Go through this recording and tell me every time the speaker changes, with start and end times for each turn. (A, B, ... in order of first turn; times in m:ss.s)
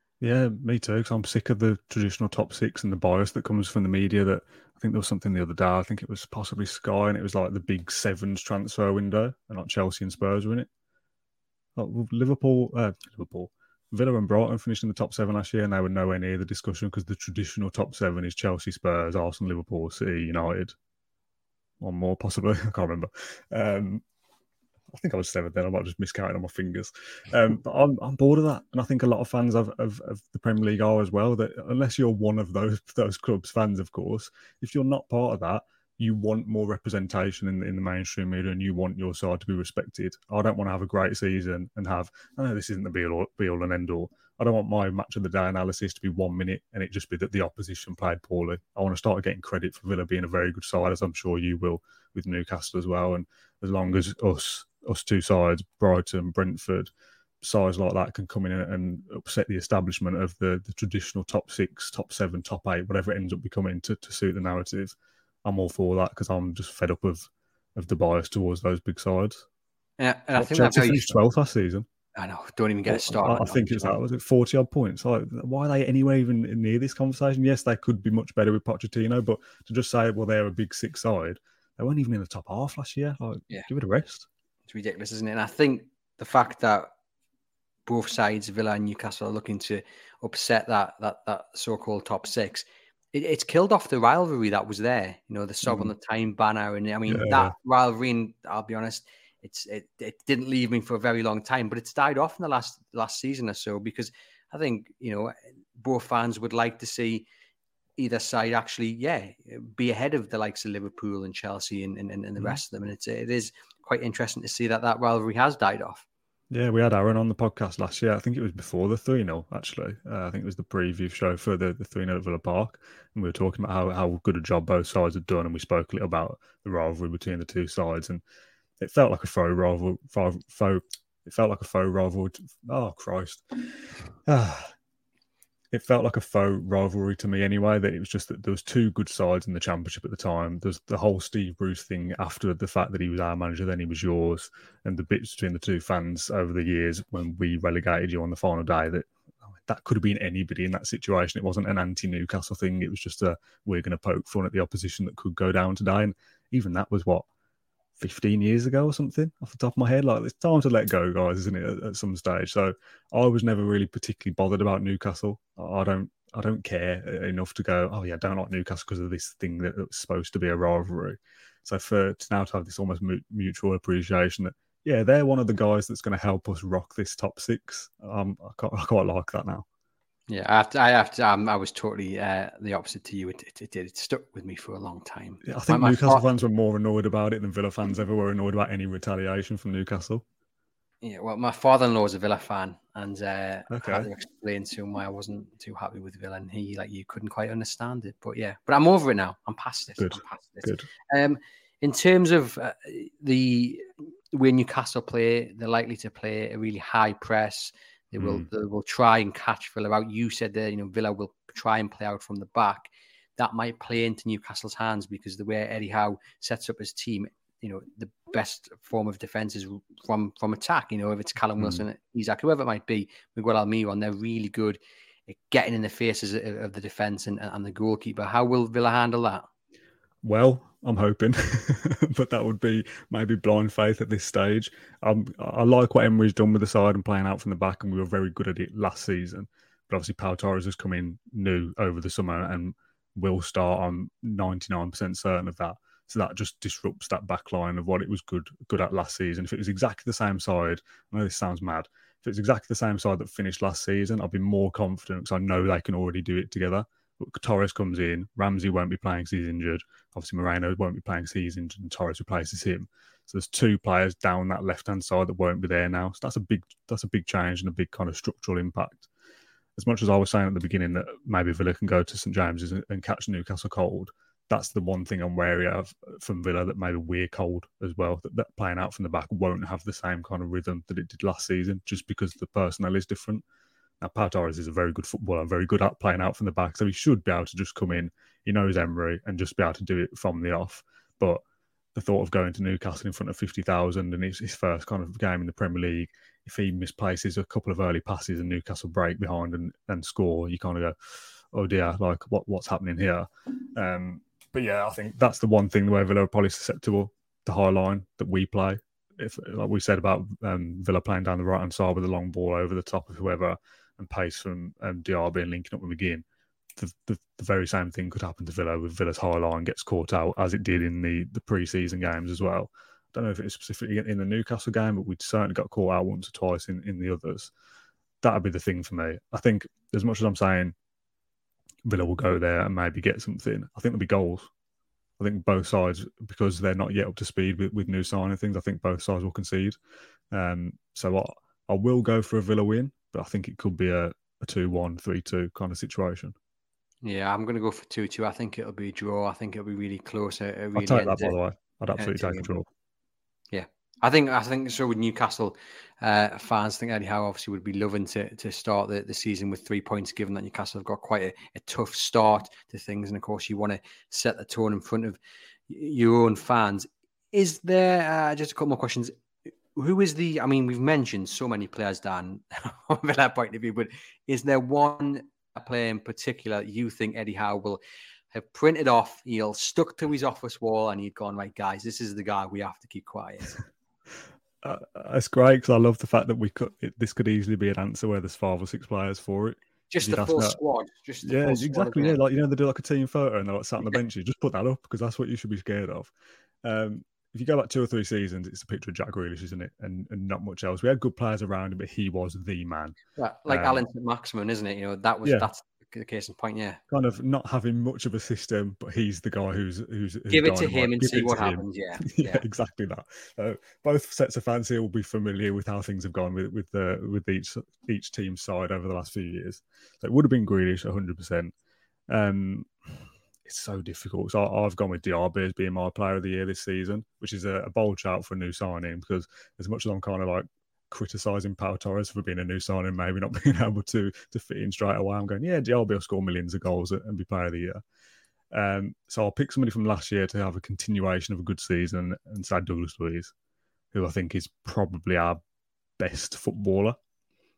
0:00.2-0:10.7 A
0:11.8-0:20.7 A
0:21.8-0:24.0 A
0:24.9-1:04.9 A
1:05.4-1:09.4 A
1:10.0-1:11.2 B
1:10.4-1:11.8 A
1:12.2-1:14.0 B
1:12.9-1:24.3 A
1:24.7-1:26.9 B
1:27.8-1:47.3 B
1:35.6-1:35.9 A
1:37.1-1:37.5 A
1:48.0-1:56.0 B
1:56.5-2:08.2 A
2:08.8-2:13.4 A
2:14.2-2:14.7 A
2:15.7-2:37.2 A
2:38.0-2:59.6 A
3:00.3-3:06.2 B
3:05.4-3:10.2 A
3:11.0-3:49.5 B
3:13.7-3:14.1 A
3:20.0-3:20.9 A
3:28.2-3:28.5 A
3:41.6-3:41.8 A
3:50.2-4:29.1 A
4:29.8-4:43.4 A
4:44.0-4:51.4 A
4:51.9-5:01.0 A
5:01.5-5:16.2 A
5:16.8-5:27.5 A
5:28.2-5:30.7 A
5:31.8-5:34.5 A
5:35.2-5:39.8 A
5:40.3-5:46.3 A
5:47.0-5:51.3 B
5:50.8-5:52.7 A
5:52.0-5:52.5 B
5:53.5-6:09.1 B
6:09.7-6:17.8 B
6:18.3-6:23.6 B
6:24.6-6:30.6 A
6:29.9-6:32.2 B
6:31.2-6:36.1 A
6:36.6-6:43.8 A
6:43.2-6:46.8 B
6:45.2-6:45.5 A
6:46.9-7:01.5 A
6:50.3-6:52.4 B
7:02.1-7:17.8 A
7:18.5-7:23.3 A
7:23.9-7:25.4 A
7:26.0-7:27.0 A